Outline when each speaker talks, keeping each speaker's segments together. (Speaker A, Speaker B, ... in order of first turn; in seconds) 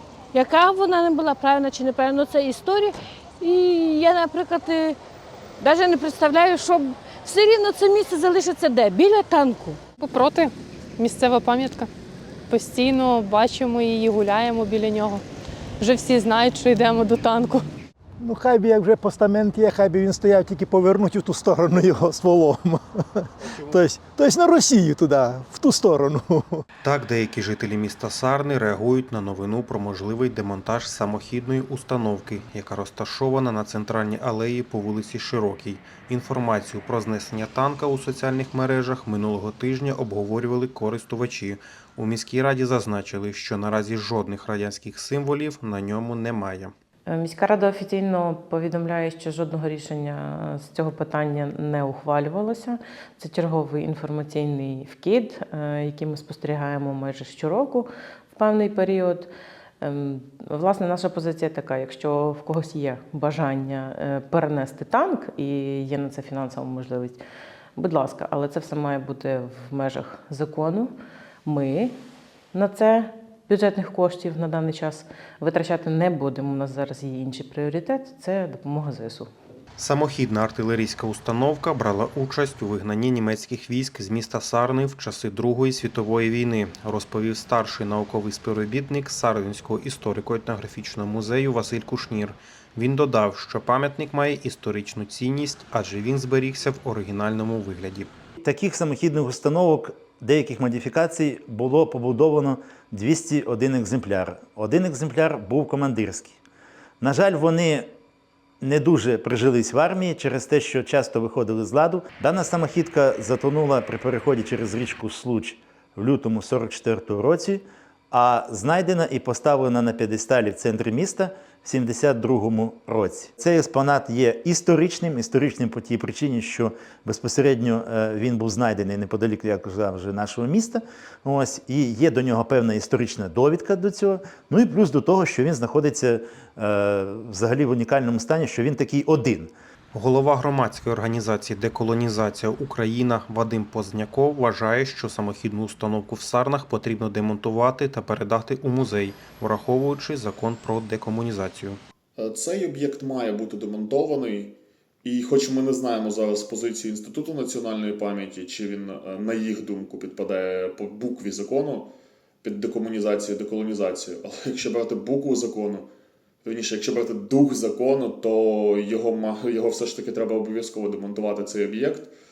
Speaker A: 0.3-5.0, 5.6-9.8
Speaker B: 10.0-11.9, 12.5-15.2, 15.8-17.6
Speaker C: 18.2-26.6
Speaker D: 26.8-46.7, 79.8-98.1, 139.9-151.8
Speaker E: 47.1-59.3, 59.8-67.2, 67.8-70.9, 71.5-72.0, 72.5-79.3
Speaker F: 98.4-106.4, 107.0-107.9, 108.6-139.5
Speaker G: 152.2-161.9, 162.4-165.9, 166.4-172.1